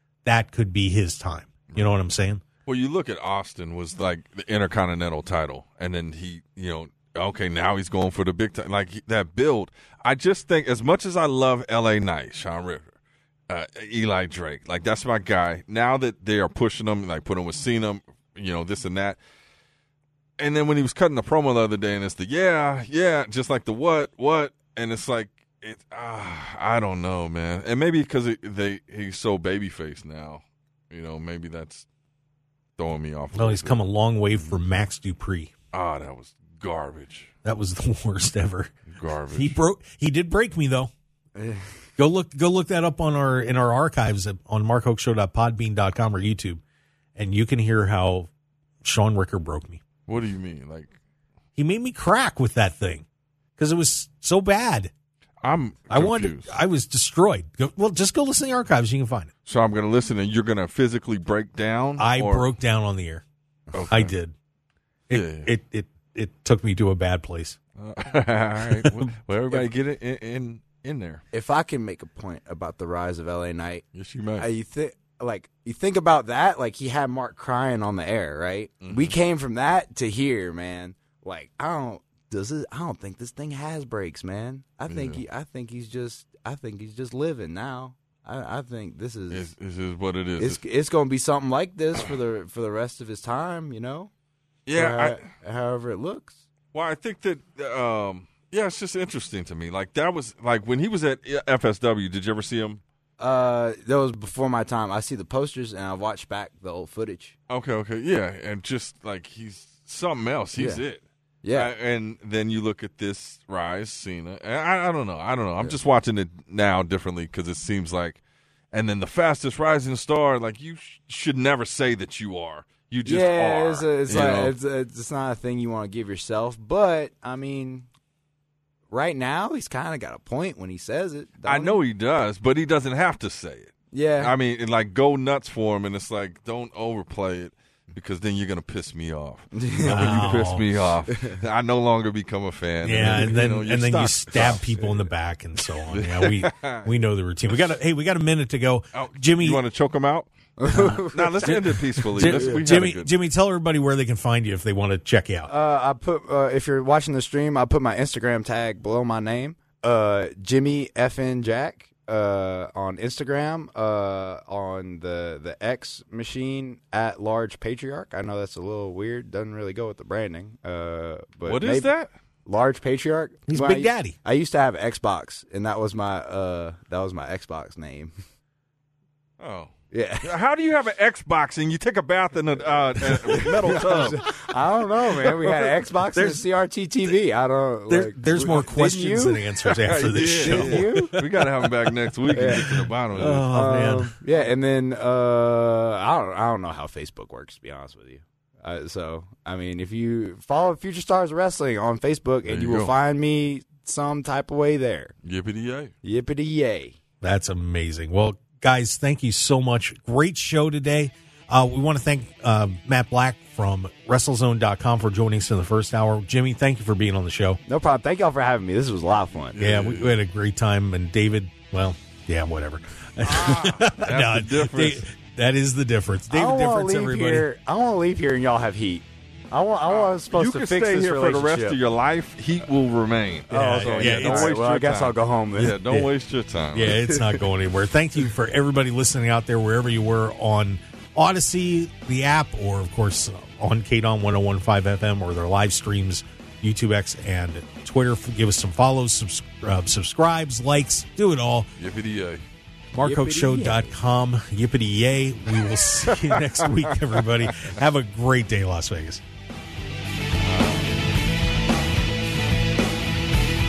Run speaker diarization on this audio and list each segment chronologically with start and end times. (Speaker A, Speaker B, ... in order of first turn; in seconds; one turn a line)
Speaker A: 0.2-2.4
Speaker B: 2.7-12.9
Speaker B: 13.5-19.2
Speaker B: 20.4-31.9
Speaker B: 32.8-33.8
Speaker A: 33.4-35.5
Speaker B: 35.7-37.3
Speaker A: 37.5-38.7
Speaker B: 38.9-39.6
Speaker A: 39.3-40.9
Speaker C: 41.4-41.7
Speaker A: 42.0-46.6
Speaker A: 47.2-48.3
Speaker A: 48.8-49.8
Speaker B: 50.1-50.9
Speaker A: 51.6-53.1
Speaker A: 53.6-54.9
Speaker B: 55.4-56.5
Speaker A: 55.9-59.3
Speaker B: 59.5-62.5
Speaker A: 62.0-63.2
Speaker B: 63.7-64.1
Speaker A: 63.9-64.3
Speaker A: 65.1-67.6
Speaker B: 65.1-65.5
Speaker B: 67.8-71.2
Speaker A: 68.6-69.6
Speaker C: 71.3-73.8
Speaker B: 73.9-74.5
Speaker C: 74.4-89.5
Speaker B: 78.8-79.2
Speaker B: 84.9-85.2
Speaker B: 89.3-90.6
Speaker C: 90.4-94.1
Speaker B: 94.7-95.2
Speaker C: 94.7-96.4
Speaker B: 96.7-102.8
Speaker C: 103.2-107.3
Speaker B: 107.5-111.0
Speaker C: 110.6-110.8
Speaker C: 111.4-111.7
Speaker B: 111.5-118.2
Speaker B: 118.7-124.5
Speaker C: 123.0-127.9
Speaker C: 128.9-131.8
Speaker B: 131.4-144.6
Speaker C: 133.9-134.3
Speaker C: 139.5-140.4
Speaker A: 139.9-140.7
Speaker A: 142.8-149.6
Speaker B: 145.9-146.9
Speaker B: 148.9-150.3
Speaker C: 150.6-152.6
Speaker B: 151.0-153.1
Speaker A: 151.5-155.5
Speaker C: 155.5-171.9
Speaker B: 171.5-172.1
Speaker C: 172.4-178.1
Speaker A: 173.5-174.2
Speaker B: 179.4-184.2
Speaker C: 179.9-180.4
Speaker C: 183.4-189.4
Speaker A: 186.1-186.4
Speaker A: 187.9-194.2
Speaker B: 189.8-193.5
Speaker C: 190.4-191.2
Speaker C: 192.3-205.1
Speaker B: 202.5-202.9
Speaker B: 205.2-205.9
Speaker C: 206.0-207.0
Speaker A: 207.2-217.6
Speaker C: 217.7-219.6
Speaker B: 219.6-220.1
Speaker A: 219.6-227.5
Speaker B: 223.2-225.0
Speaker C: 226.3-231.8
Speaker B: 229.9-237.0
Speaker C: 233.5-235.8
Speaker A: 233.5-234.6
Speaker A: 236.7-251.7
Speaker B: 251.8-252.4
Speaker A: 252.9-259.2
Speaker C: 253.0-253.9
Speaker B: 256.1-257.7
Speaker B: 260.4-260.9